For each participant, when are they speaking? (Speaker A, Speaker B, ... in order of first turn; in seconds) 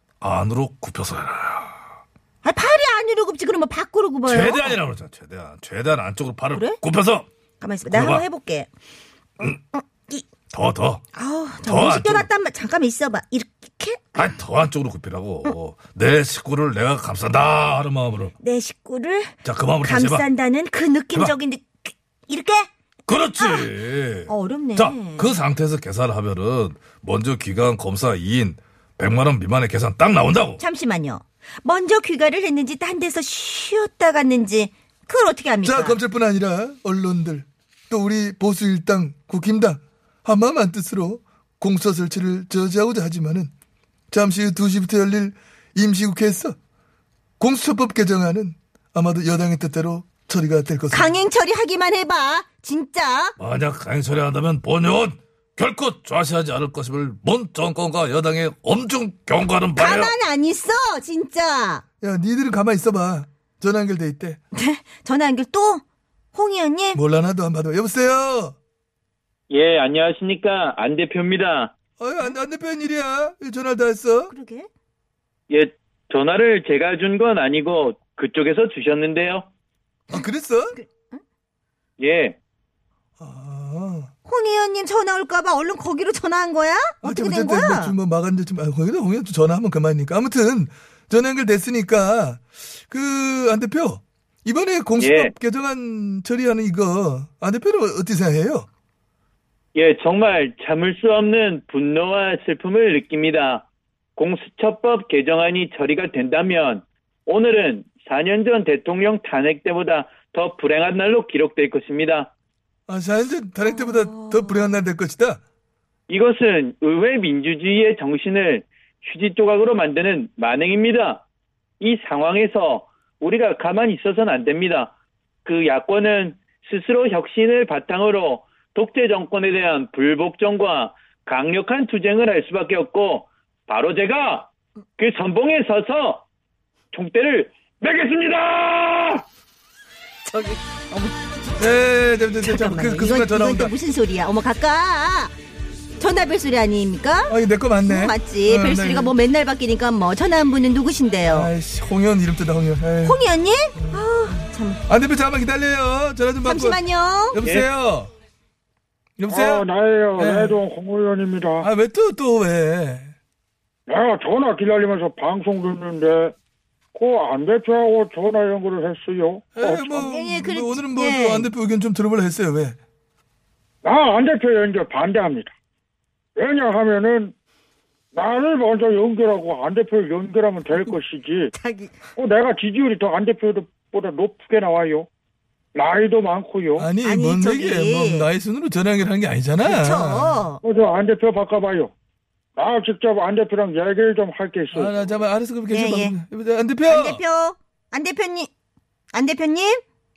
Speaker A: 0.2-1.8, 4.3-7.3, 7.9-8.2, 10.5-11.0, 11.6-12.3, 14.2-18.3, 19.4-20.3, 23.1-30.6, 53.4-60.1
Speaker B: 2.4-4.8, 6.5-6.8, 7.6-8.7, 9.4-10.3, 11.1-14.3, 18.4-22.7, 23.4-23.7, 24.3-25.4, 30.6-36.0, 50.9-53.4, 59.8-61.8, 64.5-65.8, 66.3-67.0, 74.3-74.7, 80.1-81.2, 84.3-87.9, 113.6-114.7, 140.3-141.2, 142.4-145.3, 146.0-151.5, 153.0-154.8, 156.4-157.4, 169.9-171.5, 181.5-181.9, 187.0-188.3, 189.6-190.6, 195.7-196.2, 196.9-198.5, 199.1-199.8
Speaker C: 35.6-43.5, 44.1-46.6, 47.4-51.1, 62.0-64.4, 67.0-68.5, 72.0-74.3, 80.1-80.8, 83.2-84.1, 87.0-98.7, 112.9-115.4, 141.6-143.8, 147.3-149.2, 151.3-154.1, 154.9-158.1, 159.2-159.7, 160.2-160.6, 161.6-163.1, 169.5-172.8, 186.8-190.4, 194.7-197.2
Speaker D: 69.5-71.7, 75.5-79.5, 82.0-82.4, 95.0-95.3, 99.8-103.7, 104.2-112.3, 116.1-121.2, 121.8-124.9, 125.5-136.2, 136.9-139.2
Speaker E: 159.3-161.7, 163.9-166.3, 166.9-170.1, 173.8-175.5, 176.4-177.3, 178.1-181.5, 182.2-185.1, 185.8-186.9, 190.6-191.9, 192.6-195.0